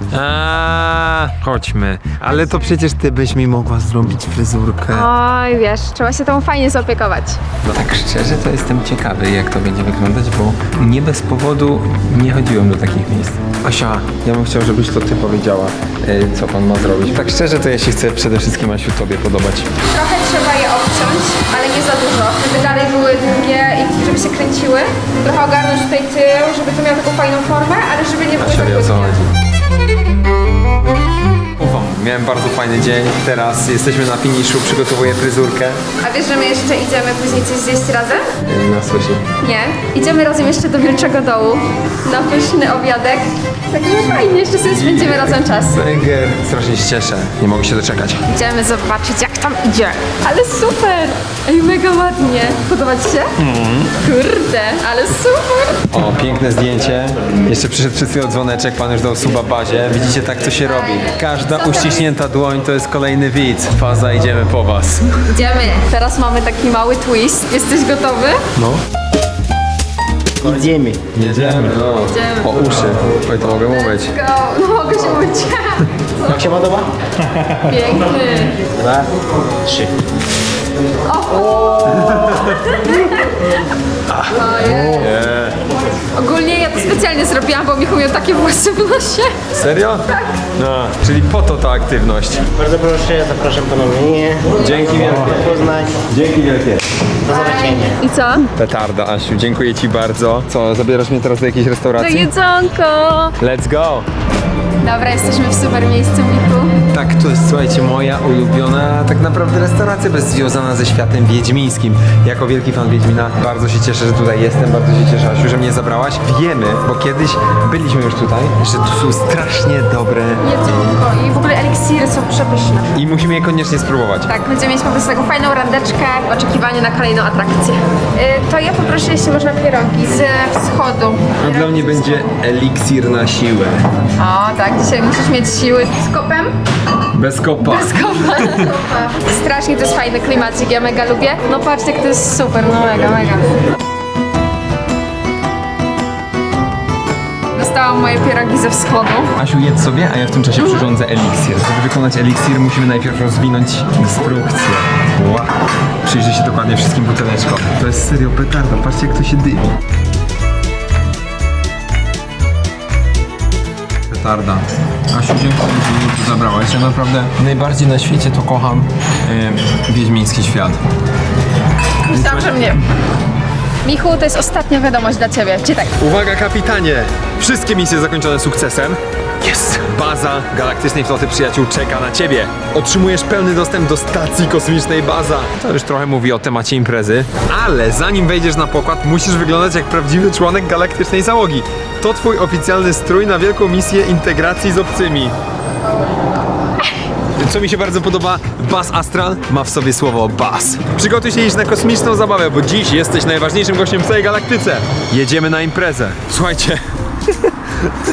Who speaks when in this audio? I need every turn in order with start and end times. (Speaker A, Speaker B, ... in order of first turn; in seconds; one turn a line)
Speaker A: 0.1-5.1
Speaker B: 4.9-7.4
Speaker A: 7.6-19.7
Speaker B: 19.9-29.2
Speaker A: 28.4-29.3
Speaker A: 31.6-35.8
Speaker B: 36.0-38.2
Speaker A: 38.5-39.2
Speaker B: 39.4-45.8
Speaker A: 44.7-48.2
Speaker B: 48.3-53.4
Speaker A: 53.4-53.9
Speaker B: 54.0-55.8
Speaker A: 55.9-65.1
Speaker B: 60.6-62.1
Speaker B: 65.3-68.4
Speaker C: 70.4-71.1
Speaker A: 71.1-74.1
Speaker B: 72.1-72.6
Speaker B: 73.7-76.5
Speaker C: 76.3-76.9
Speaker B: 77.6-78.6
Speaker C: 78.8-79.1
Speaker C: 79.6-79.9
Speaker B: 81.1-83.6
Speaker A: 82.1-82.6
Speaker B: 84.3-85.1
Speaker A: 85.0-85.5
Speaker B: 86.2-89.4
Speaker A: 89.5-92.4
Speaker C: 92.5-96.1
Speaker A: 94.6-95.5
Speaker A: 96.1-96.8
Speaker C: 97.3-98.0
Speaker B: 97.3-98.5
Speaker A: 98.6-102.3
Speaker B: 102.0-103.3
Speaker A: 103.4-104.1
Speaker B: 104.8-106.7
Speaker A: 106.9-120.4
Speaker B: 120.4-122.9
Speaker A: 123.0-124.3
Speaker B: 124.3-132.3
Speaker A: 131.4-133.8
Speaker B: 134.2-136.5
Speaker A: 137.1-138.7
Speaker B: 137.6-143.5
Speaker B: 147.6-149.3
Speaker A: 149.4-155.5
Speaker B: 150.6-150.9
Speaker A: 156.0-159.7
Speaker A: 164.1-170.8
Speaker B: 172.1-172.8
Speaker A: 172.1-172.6
Speaker B: 173.8-176.0
Speaker A: 176.0-195.3
Speaker A: 197.4-206.8